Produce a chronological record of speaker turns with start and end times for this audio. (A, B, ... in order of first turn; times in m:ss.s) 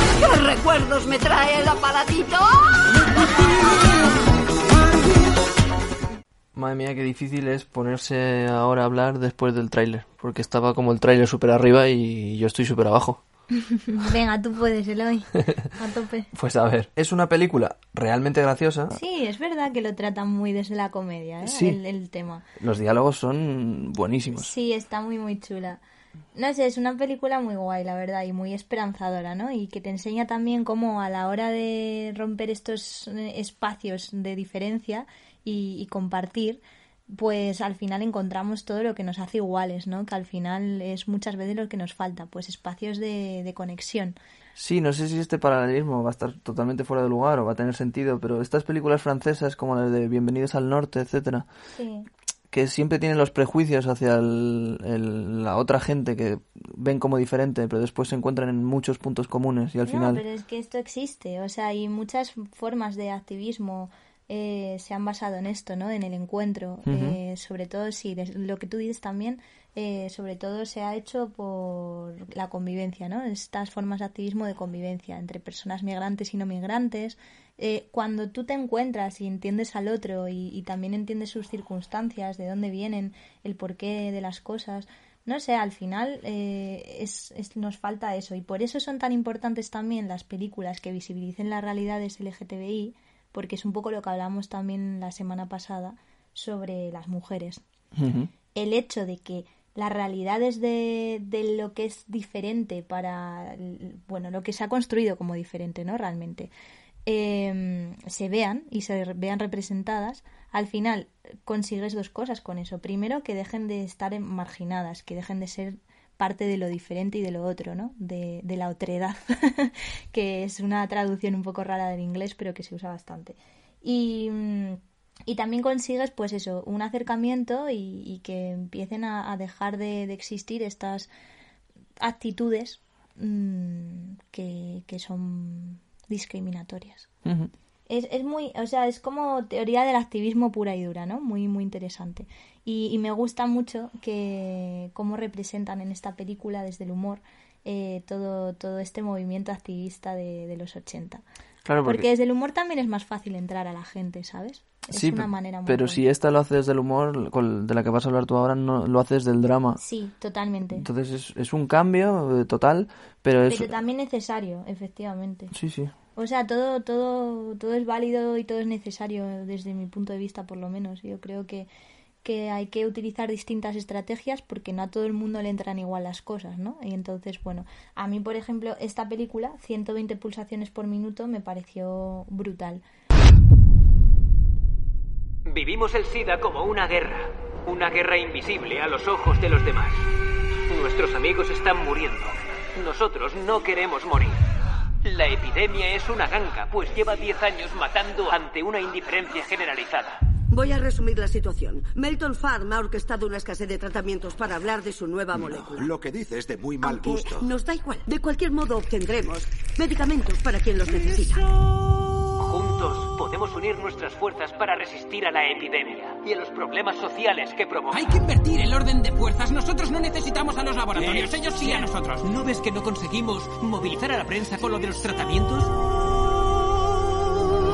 0:00.2-0:02.7 A
0:06.5-0:13.2 B
0:13.7-0:16.3 C
0:16.3-0:19.0 B
0:18.9-0:22.4 C
0:21.4-0:21.8 B
0:22.6-0:24.5 B
0:24.3-0:25.8 C
0:26.3-0:44.2 C
0:44.5-0:51.5 B
0:51.7-0:52.1 C
0:52.5-1:00.2 B
0:59.9-1:37.6 C
1:06.8-1:07.2 B
1:37.9-1:38.3 B
1:38.5-1:46.5 C
1:47.0-2:11.1 C
2:12.0-2:17.1 C
2:17.2-2:17.5 B
2:17.9-2:31.2 C
2:31.6-2:32.1 B
2:31.8-2:36.0 C
2:34.9-2:39.8 B
2:39.8-2:40.8 C
2:40.7-2:43.7 B
2:43.5-2:45.5 C
2:45.5-2:45.9 B
2:46.2-2:51.7 C
2:52.2-3:02.8 C
3:05.5-3:10.1 D
3:10.7-3:14.4 D
3:15.0-3:20.2 D
3:20.5-3:25.9 E
3:25.3-3:27.5 F
3:26.8-3:31.4 E
3:32.4-3:38.2 D
3:37.9-3:45.7 G